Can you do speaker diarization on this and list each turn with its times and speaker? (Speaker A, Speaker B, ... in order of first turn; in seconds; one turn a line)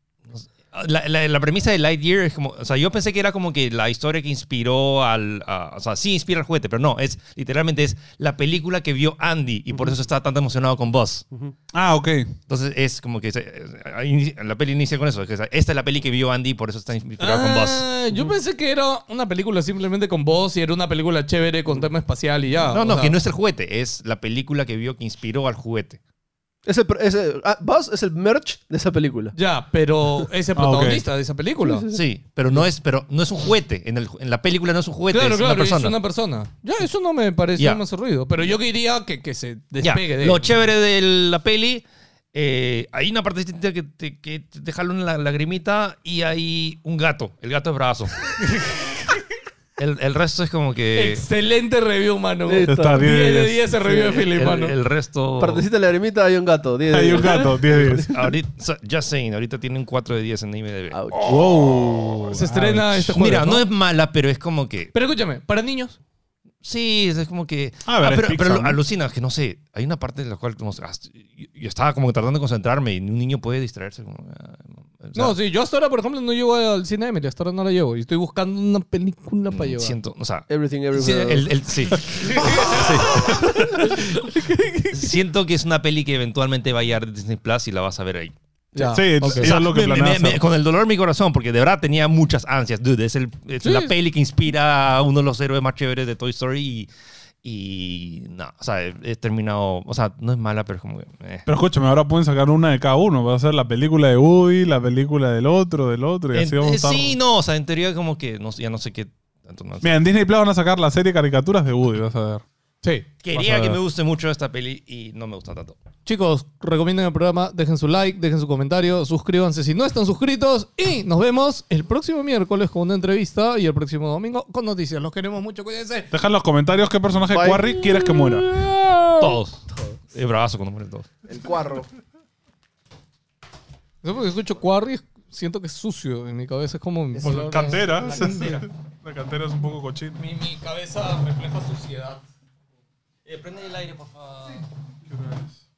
Speaker A: 0.3-11.2
Speaker B: 11.7-12.3
Speaker A: 12.5-17.8
Speaker C: 17.2-23.1
Speaker A: 22.7-26.0
Speaker D: 26.6-29.3
Speaker C: 29.3-31.9
Speaker B: 30.6-31.0
Speaker D: 31.6-32.0
Speaker A: 31.9-36.0
Speaker C: 35.1-40.4
Speaker A: 39.8-48.3
Speaker C: 48.4-49.1
Speaker A: 49.8-51.2
Speaker C: 51.0-54.8
Speaker D: 52.5-53.1
Speaker B: 52.6-53.6
Speaker D: 53.8-54.1
Speaker A: 54.1-55.7
Speaker D: 55.4-58.2
Speaker B: 56.9-58.1
Speaker A: 58.1-61.0
Speaker D: 60.9-61.3
Speaker B: 61.2-63.2
Speaker C: 62.3-63.7
Speaker A: 63.1-64.9
Speaker C: 64.9-66.0
Speaker A: 66.6-75.3
Speaker B: 67.8-68.8
Speaker C: 75.1-80.0
Speaker A: 79.5-84.3
Speaker D: 80.5-81.5
Speaker C: 82.1-85.2
Speaker A: 84.9-88.3
Speaker C: 88.7-89.5
Speaker B: 88.9-90.4
Speaker A: 89.2-96.9
Speaker C: 93.6-93.9
Speaker A: 97.4-101.5
Speaker B: 101.5-107.2
Speaker A: 106.3-109.9
Speaker B: 109.8-112.4
Speaker A: 113.2-115.8
Speaker B: 113.3-113.8
Speaker C: 116.0-126.1
Speaker B: 126.1-128.4
Speaker D: 127.3-127.6
Speaker C: 127.7-129.3
Speaker A: 129.2-131.1
Speaker D: 131.3-131.9
Speaker C: 134.0-138.7
Speaker B: 137.2-140.2
Speaker C: 140.2-142.2
Speaker A: 143.2-144.6
Speaker B: 145.1-145.5